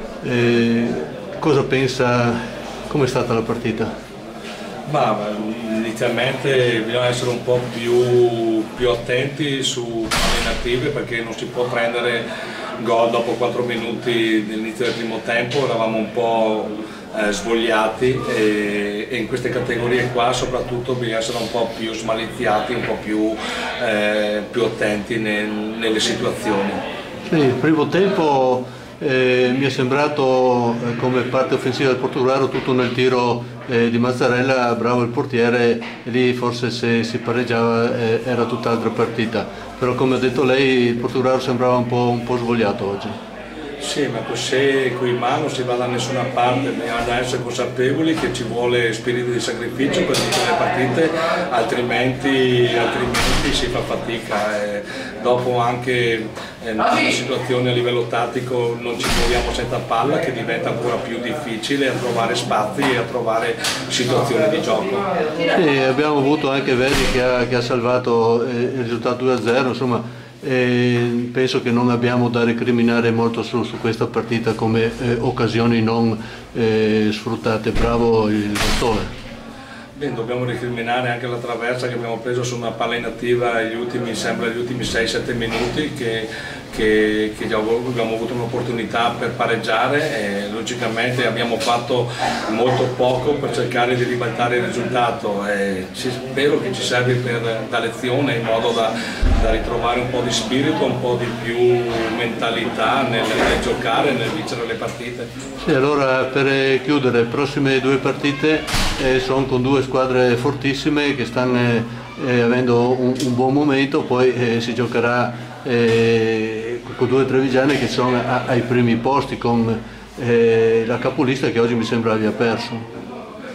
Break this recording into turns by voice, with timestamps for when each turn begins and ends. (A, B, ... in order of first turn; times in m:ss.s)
0:00.2-0:03.9 A
0:04.9-0:12.2 B
0:12.8-0:26.8 B
0:27.3-0:43.2 A
0:43.8-1:05.0 B
1:05.5-1:19.1 A
1:19.9-1:45.3 B
1:45.6-2:02.9 A